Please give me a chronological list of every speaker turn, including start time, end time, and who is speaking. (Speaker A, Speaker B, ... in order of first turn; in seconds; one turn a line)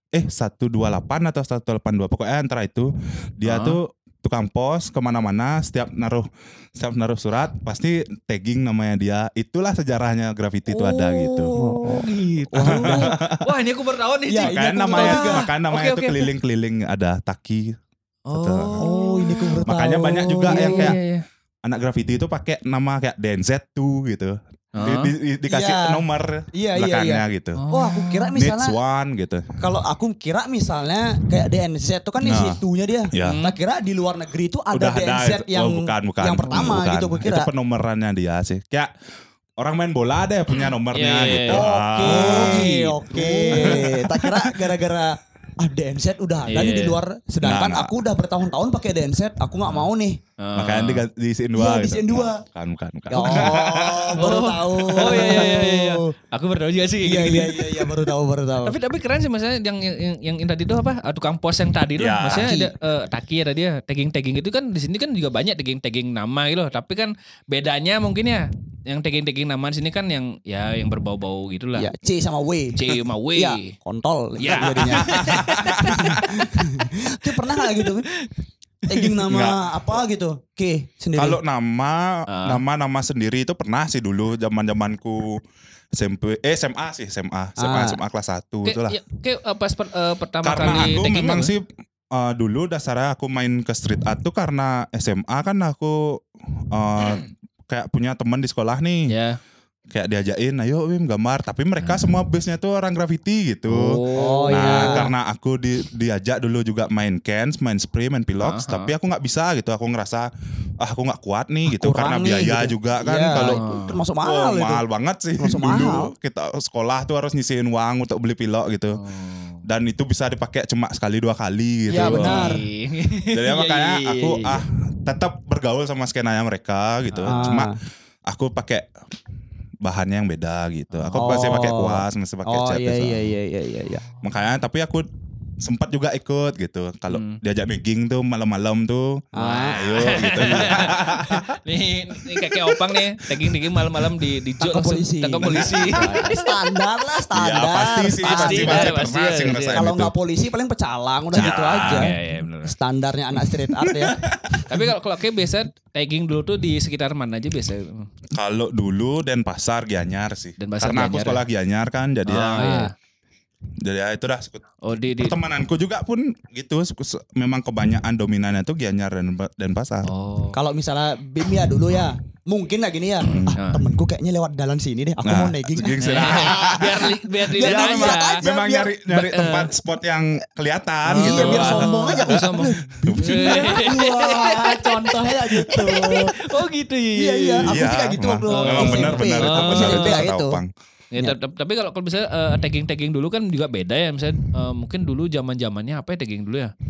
Speaker A: 0.1-11.5
Speaker B: 3.4-3.8
Speaker B: 10.7-16.3
Speaker C: 11.6-13.2
Speaker A: 12.6-13.4
Speaker C: 14.3-15.4
Speaker A: 14.4-17.8
Speaker B: 18.3-19.7
Speaker A: 18.3-18.9
Speaker C: 18.8-20.9
Speaker A: 19.6-21.0
Speaker B: 20.4-21.2
Speaker A: 21.6-27.6
Speaker B: 24.7-25.1
Speaker C: 25.5-28.8
Speaker B: 27.5-28.3
Speaker A: 28.3-29.5
Speaker C: 29.6-37.5
Speaker A: 32.2-32.6
Speaker A: 33.1-33.4
Speaker B: 33.2-33.6
Speaker A: 34.7-38.9
Speaker B: 36.5-36.7
Speaker A: 39.6-42.7
Speaker B: 40.9-44.0
Speaker C: 41.5-50.2
Speaker A: 43.5-44.5
Speaker B: 46.5-47.0
Speaker A: 47.4-47.9
Speaker B: 50.4-51.0
Speaker A: 50.5-54.3
Speaker C: 51.5-52.4
Speaker C: 53.1-56.1
Speaker B: 53.1-53.5
Speaker B: 54.1-58.1
Speaker C: 57.0-58.8
Speaker B: 58.6-71.9
Speaker A: 62.0-62.5
Speaker C: 62.3-62.7
Speaker C: 71.8-78.1
Speaker B: 72.7-73.7
Speaker B: 74.4-76.6
Speaker A: 74.5-76.3
Speaker B: 77.3-78.3
Speaker C: 78.9-81.4
Speaker A: 79.3-79.6
Speaker A: 81.2-85.4
Speaker B: 82.3-82.6
Speaker A: 85.9-89.0
Speaker C: 87.6-88.0
Speaker B: 88.6-91.5
Speaker A: 90.4-99.1
Speaker B: 99.1-99.4
Speaker A: 99.9-110.3
Speaker B: 101.8-102.1
Speaker B: 103.7-105.1
Speaker C: 104.1-105.1
Speaker B: 108.4-108.9
Speaker A: 110.8-113.6
Speaker C: 111.7-114.8
Speaker B: 113.3-114.0
Speaker A: 114.2-119.0
Speaker C: 115.4-116.1
Speaker B: 118.9-119.6
Speaker A: 119.6-122.6
Speaker C: 121.9-122.6
Speaker B: 121.9-124.6
Speaker A: 123.3-127.7
Speaker B: 127.1-127.6
Speaker C: 127.3-127.7
Speaker A: 128.2-128.9
Speaker A: 129.8-133.2
Speaker B: 130.9-131.3
Speaker C: 131.2-134.0
Speaker A: 134.2-135.1
Speaker A: 135.6-141.6
Speaker B: 137.1-137.4
Speaker C: 139.3-139.8
Speaker B: 139.3-146.5
Speaker C: 144.6-149.0
Speaker A: 145.5-146.0
Speaker A: 147.3-150.1
Speaker B: 148.2-149.8
Speaker C: 149.7-154.2
Speaker A: 151.3-152.1
Speaker B: 151.3-152.7
Speaker A: 153.8-154.6
Speaker B: 154.5-158.1
Speaker A: 158.3-162.7
Speaker B: 160.6-161.4
Speaker B: 162.2-162.9
Speaker C: 162.6-162.9
Speaker A: 163.8-164.6
Speaker B: 164.8-165.4
Speaker A: 165.2-170.1
Speaker B: 170.0-170.6
Speaker C: 170.5-178.9
Speaker A: 173.3-173.6
Speaker B: 173.5-173.8
Speaker A: 175.2-182.5
Speaker B: 176.0-178.4
Speaker B: 179.1-179.7
Speaker B: 181.1-187.8
Speaker C: 181.1-186.6
Speaker A: 183.1-183.6
Speaker C: 187.1-190.6
Speaker A: 187.7-190.7
Speaker B: 188.5-190.3
Speaker B: 191.1-196.7